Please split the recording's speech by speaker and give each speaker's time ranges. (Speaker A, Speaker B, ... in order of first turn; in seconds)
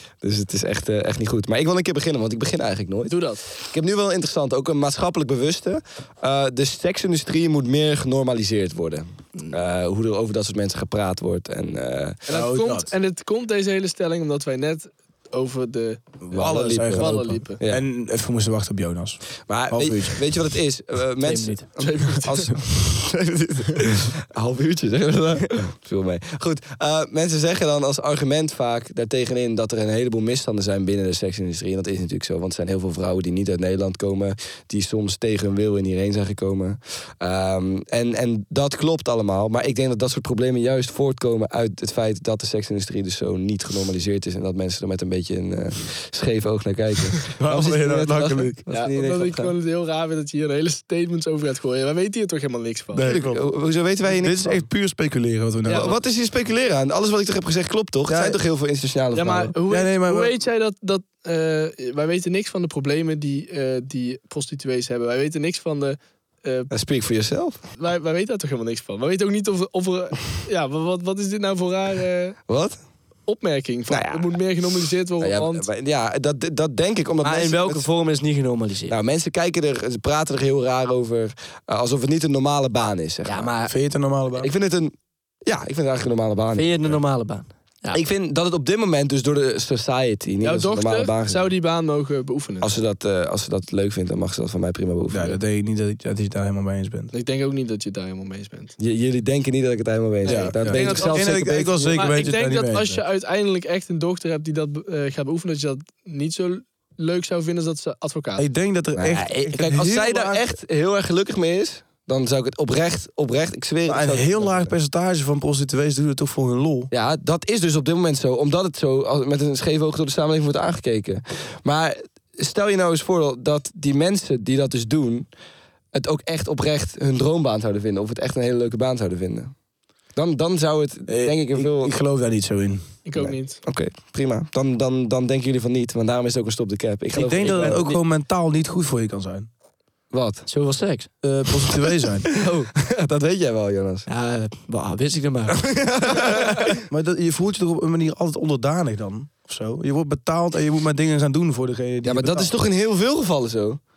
Speaker A: 0.2-12.2, 16.3-17.8, 19.5-49.5, 53.0-54.6, 55.7-59.5, 66.7-67.6, 72.5-72.8, 73.9-74.4, 75.2-77.9, 78.9-83.5, 84.3-84.9, 85.4-87.0, 87.9-91.5, 92.6-95.4, 98.8-102.4, 108.9-114.7, 116.9-125.3, 125.9-129.5, 130.2-131.9, 133.2-138.0, 140.1-140.5, 142.8-144.1, 145.6-146.8, 152.0-153.8
Speaker B: 3.1-3.4, 12.3-16.2, 16.8-17.6, 21.8-22.6, 48.7-53.1, 55.6-55.9, 59.1-66.7, 67.8-72.4, 73.3-75.7, 90.4-92.7, 97.1-98.7, 100.2-108.4, 133.0-133.6
Speaker C: 12.3-12.9, 16.2-20.2, 47.3-48.6, 53.0-53.5, 54.1-55.9, 58.1-58.4, 59.7-60.3, 83.7-84.5, 95.1-97.1, 100.2-103.0, 108.4-110.4, 113.9-116.9, 131.1-133.0, 137.1-139.5, 141.2-142.3, 146.9-152.5
Speaker D: 21.2-21.6, 77.2-79.0, 83.2-83.7, 86.5-88.0, 137.1-138.0, 140.5-141.1, 142.3-142.7, 144.1-145.7